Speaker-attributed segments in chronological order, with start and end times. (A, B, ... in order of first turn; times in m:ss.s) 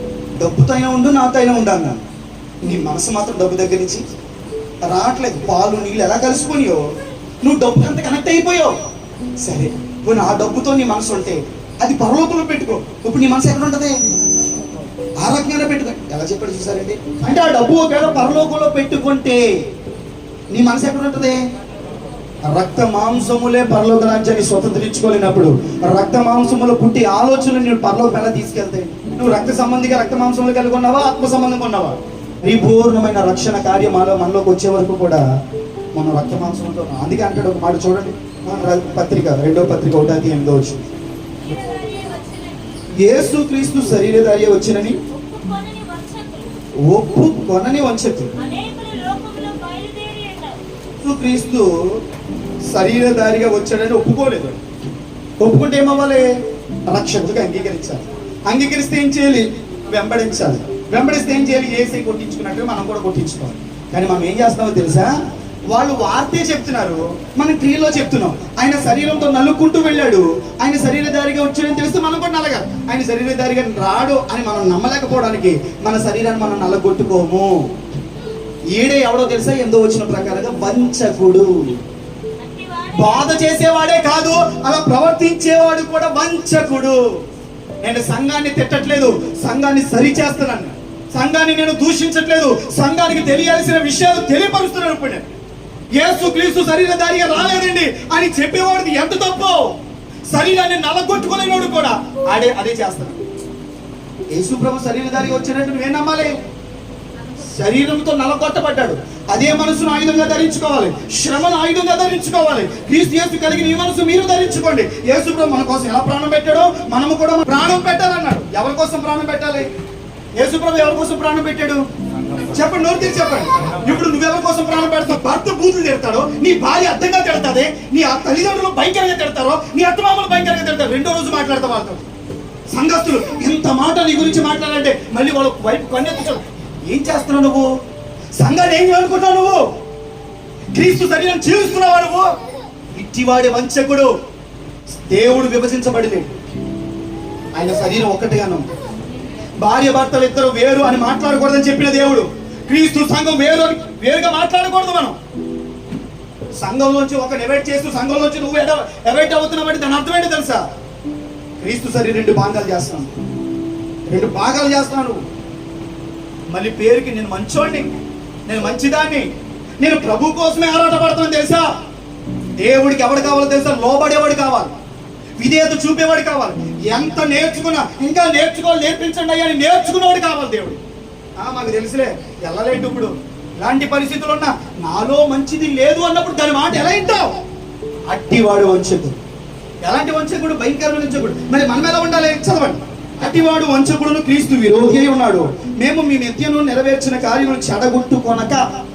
0:00.4-0:02.0 A
0:02.6-0:04.0 A
0:04.8-0:06.8 A
0:07.4-0:08.8 A
0:09.4-0:14.0 A
0:15.2-0:19.4 A
0:20.5-0:21.4 A
0:22.4-0:35.2 A
0:35.9-0:40.8 A
0:41.4-0:42.8 B
0:43.0-0:45.0 A
0:45.0-0:46.6 B
0:46.8-0:48.3 A
0:48.4-0:50.6 B
0:51.0-0:51.8 A
0:52.7-0:54.6 A
0:55.4-0:56.3 A
0:56.9-1:05.1 A
1:05.7-1:17.6 A
1:18.7-1:21.7 A
1:22.4-1:23.3 B
1:22.9-1:27.0 A
1:27.8-1:35.2 A
1:36.0-1:39.7 A
1:40.3-1:43.2 A
1:44.3-1:46.4 A
1:47.4-1:59.7 A
2:00.4-2:01.8 A
2:02.4-2:12.0 A
2:12.7-2:17.7 A
2:18.4-2:19.6 A
2:20.7-2:22.4 A
2:22.9-2:24.1 A
2:25.1-2:26.3 A
2:27.5-2:28.6 A
2:29.6-2:35.2 A
2:36.6-2:40.6 A
2:41.6-2:43.1 A
2:44.1-2:45.2 A
2:46.5-2:47.9 A
2:48.5-2:49.2 A
2:49.8-2:51.7 A
2:52.6-2:54.7 A
2:55.4-3:00.8 A
3:01.4-3:07.3 A
3:08.1-3:09.2 A
3:09.8-3:18.6 A